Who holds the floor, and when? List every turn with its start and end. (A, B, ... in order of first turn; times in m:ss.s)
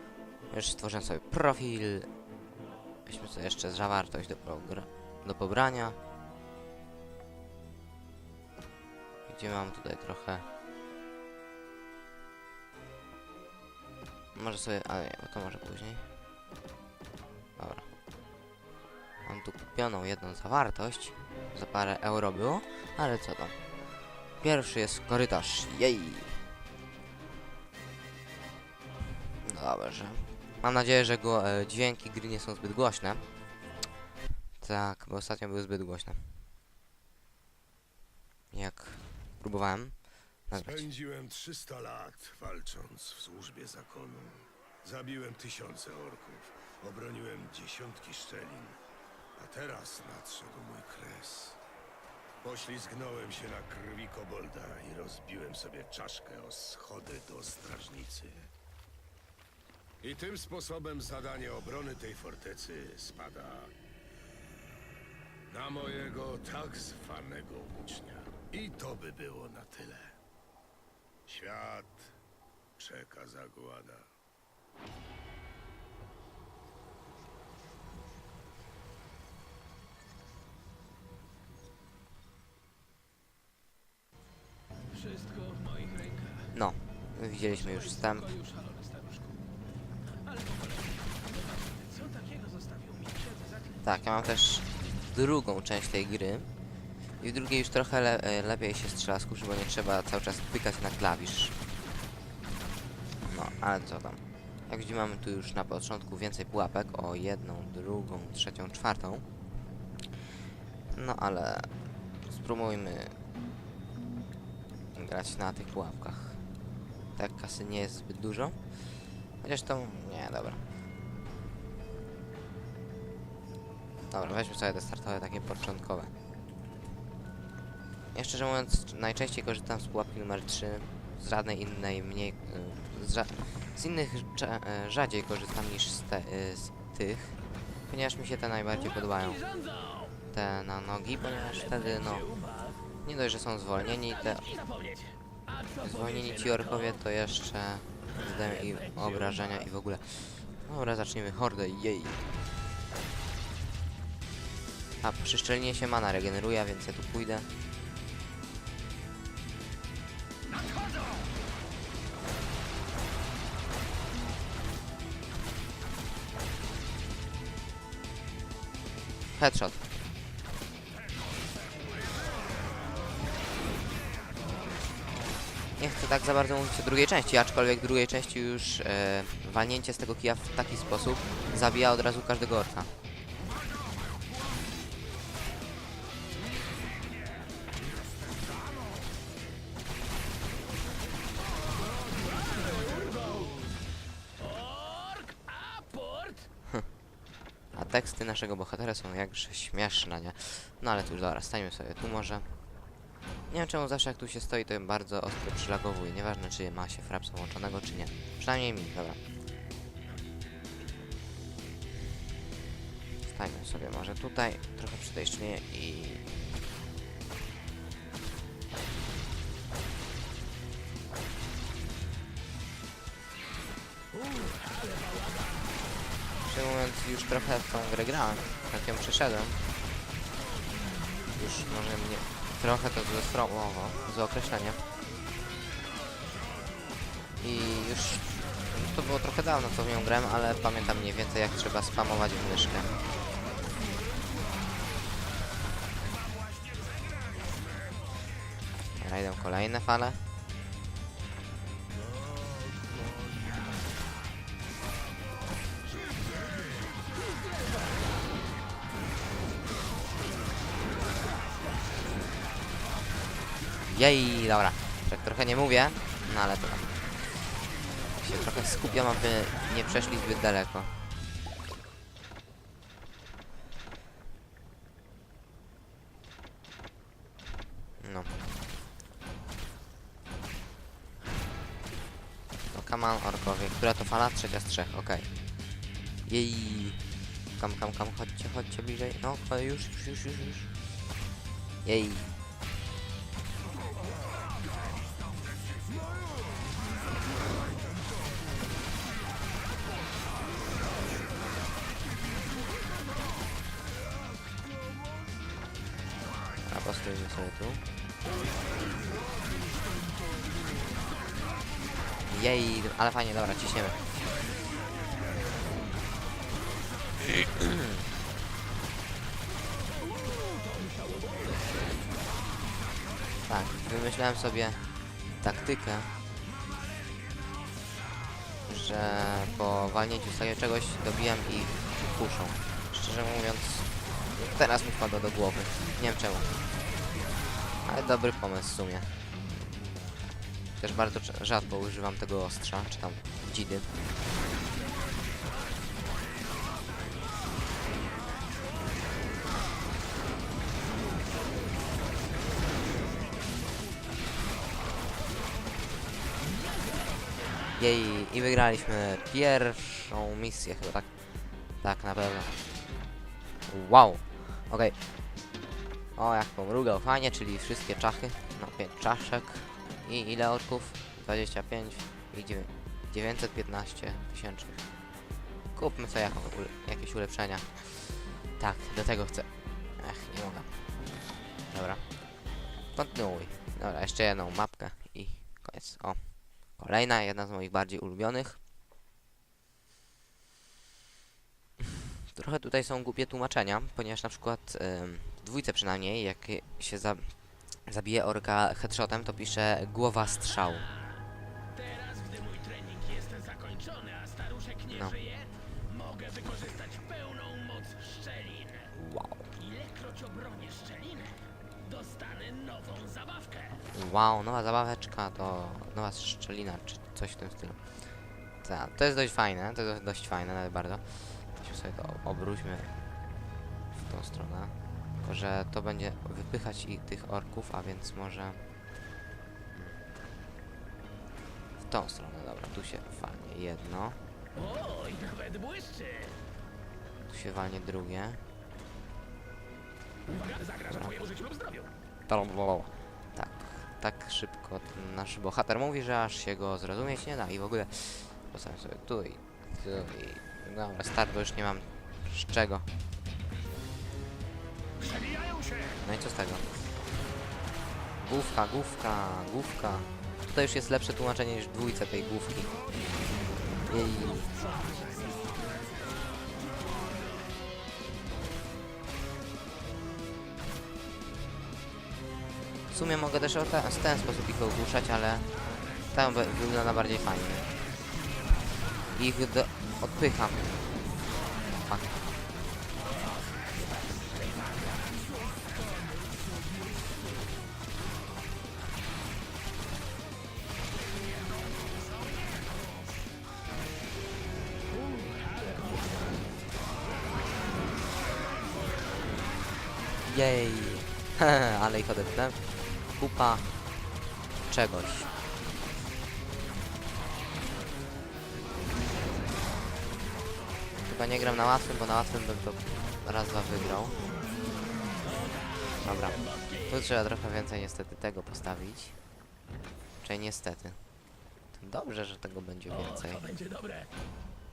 0:00.5-0:02.1 A
0:03.1-0:06.0 A
0:09.3-0:10.5 A
0:14.4-0:16.1 A
0:17.6-0:17.9 A
0:19.2-0:23.6 A
0:24.4-0:26.4 A
0:29.4-0:33.2 A
0:34.6-0:36.4 A
0:38.5-0:40.9 A
0:40.6-0:48.8 B
0:49.4-0:51.6 B
0:52.4-0:58.5 B
1:00.0-1:03.7 B
1:05.5-1:10.2 B
1:11.3-1:12.1 B
1:12.8-1:14.1 B
1:24.9-1:26.5 C
1:26.5-1:28.3 A
1:27.8-1:29.3 C
1:30.2-1:33.8 C
1:33.8-1:36.5 A
1:37.2-1:41.6 A
1:43.3-1:49.2 A
1:50.9-1:51.7 A
1:52.3-1:53.2 A
1:55.0-1:56.4 A
1:57.2-1:58.6 A
1:59.4-2:00.6 A
2:04.1-2:06.1 A
2:08.1-2:19.4 A
2:19.4-2:20.1 C
2:20.3-2:22.3 A
2:22.2-2:22.8 C
2:23.0-2:24.5 A
2:24.4-2:26.6 C
2:25.8-2:32.3 A
2:35.0-2:37.5 A
2:49.4-2:49.9 A
2:55.8-3:02.9 A
3:14.4-3:16.5 C
3:17.7-3:22.5 A
3:23.5-3:29.2 A
3:33.3-3:36.3 A
3:44.2-3:45.6 C
3:46.4-3:49.8 A
3:51.3-3:54.8 A
3:57.4-4:02.9 A
4:09.0-4:10.2 A
4:23.9-4:27.1 A
4:28.2-4:31.0 A
4:38.0-4:38.3 A
4:42.7-4:45.3 A
4:46.3-4:47.0 A
4:47.6-4:50.7 A
4:51.8-4:52.4 A
5:06.6-5:07.8 A
5:12.3-5:14.1 A
5:20.3-5:21.7 C
5:23.5-5:24.8 A
5:25.4-5:26.1 A
5:28.7-5:36.5 A
5:37.8-5:39.1 A
5:40.8-5:43.9 A
5:56.8-5:57.0 C
5:57.8-6:01.1 A
6:01.8-6:02.6 A
6:03.7-6:05.0 A
6:06.1-6:14.8 A
6:15.8-6:20.8 A
6:21.7-6:22.0 A
6:22.9-6:28.6 A
6:32.3-6:40.9 A
6:41.8-6:48.9 C
6:44.9-6:45.2 A
6:48.9-6:49.5 A
6:49.6-6:53.8 C
6:53.9-6:57.8 A
6:58.6-7:02.9 A
7:03.9-7:08.6 A
7:11.8-7:14.2 A
7:14.6-7:16.4 C
7:17.3-7:18.4 A
7:20.3-7:21.9 C
7:20.9-7:21.1 A
7:22.3-7:32.9 A
7:35.1-7:35.9 C
7:36.0-7:36.7 A
7:38.2-7:42.7 A
7:43.9-7:44.5 A
7:44.6-7:45.1 C
7:52.9-7:55.5 A
7:56.1-7:57.7 A
7:59.1-8:00.8 A
8:01.8-8:02.2 A
8:15.1-8:16.2 C
8:20.2-8:22.6 A
8:23.1-8:23.7 A
8:24.7-8:25.3 A
8:31.0-8:34.2 A
8:35.5-8:36.9 C
8:36.0-8:39.2 A
8:40.2-8:41.0 A
8:41.7-8:43.5 A
8:43.0-8:44.1 C